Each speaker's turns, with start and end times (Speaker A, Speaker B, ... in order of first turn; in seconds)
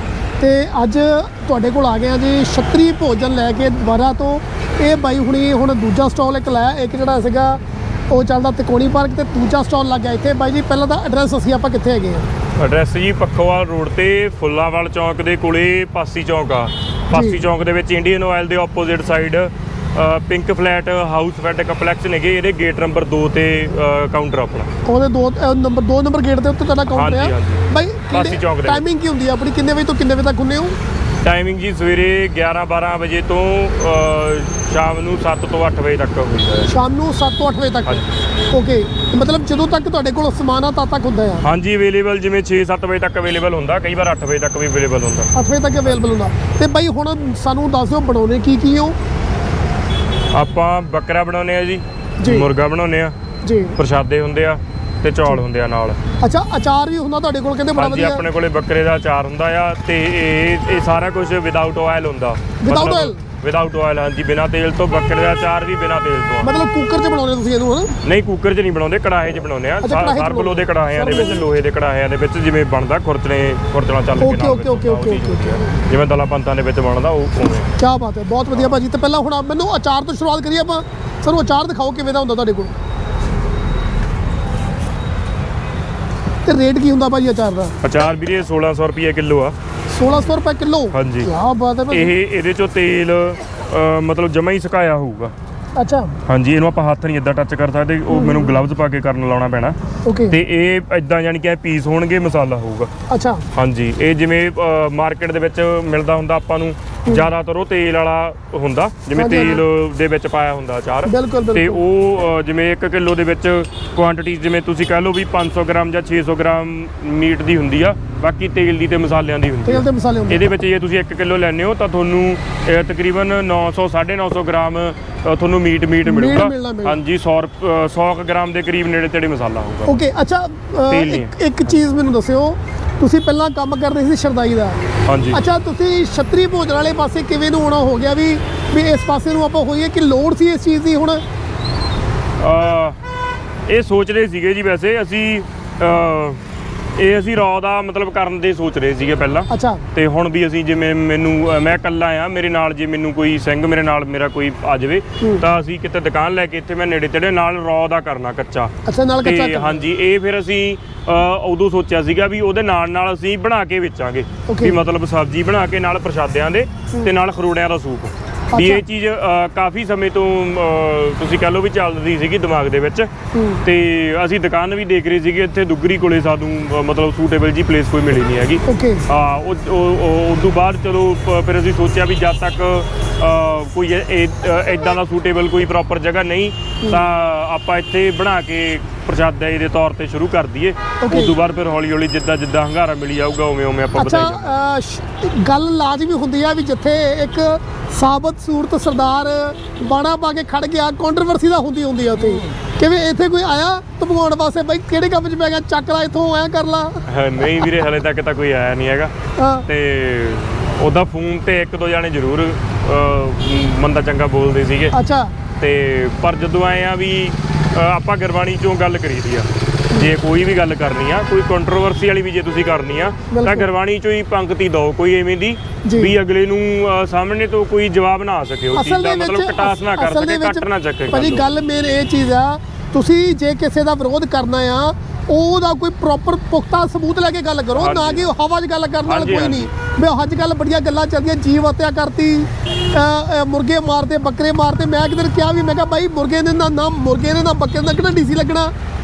Speaker A: 0.4-12.3, 17.1-17.4, 24.8-30.8, 36.7-38.0, 38.5-41.5, 45.3-49.0, 52.2-52.5, 53.4-53.8, 56.2-58.2, 62.6-63.2, 66.4-67.9, 69.8-71.4, 74.2-75.8, 77.8-82.7, 86.4-87.8, 89.9-92.1, 95.8-96.2, 98.1-98.5, 100.0-100.3, 103.1-103.4, 109.1-109.6, 111.0-111.8, 119.7-120.4, 126.0-127.0, 129.8-134.8, 135.3-141.2, 149.5-149.8, 158.8-159.8, 164.5-164.8, 168.5-168.8, 173.3-173.6, 178.7-179.1, 191.0-191.4, 193.9-207.0, 209.4-209.7, 214.9-215.3, 223.3-223.7, 225.8-226.1, 228.7-248.7
Speaker B: 12.6-24.7, 26.9-28.8, 31.2-36.7, 37.9-38.1, 41.4-45.3, 50.3-53.1, 53.8-56.0, 57.7-66.5, 68.0-77.7, 87.8-89.5, 90.9-91.3, 91.9-95.3, 96.2-99.8, 100.3-102.9, 103.5-130.0, 130.9-131.3, 135.1-135.4, 142.4-143.0, 143.7-146.4, 146.9-158.7, 159.2-173.1, 173.6-194.6, 207.1-209.1, 209.7-214.9, 215.6-231.4, 237.8-238.3, 239.1-239.7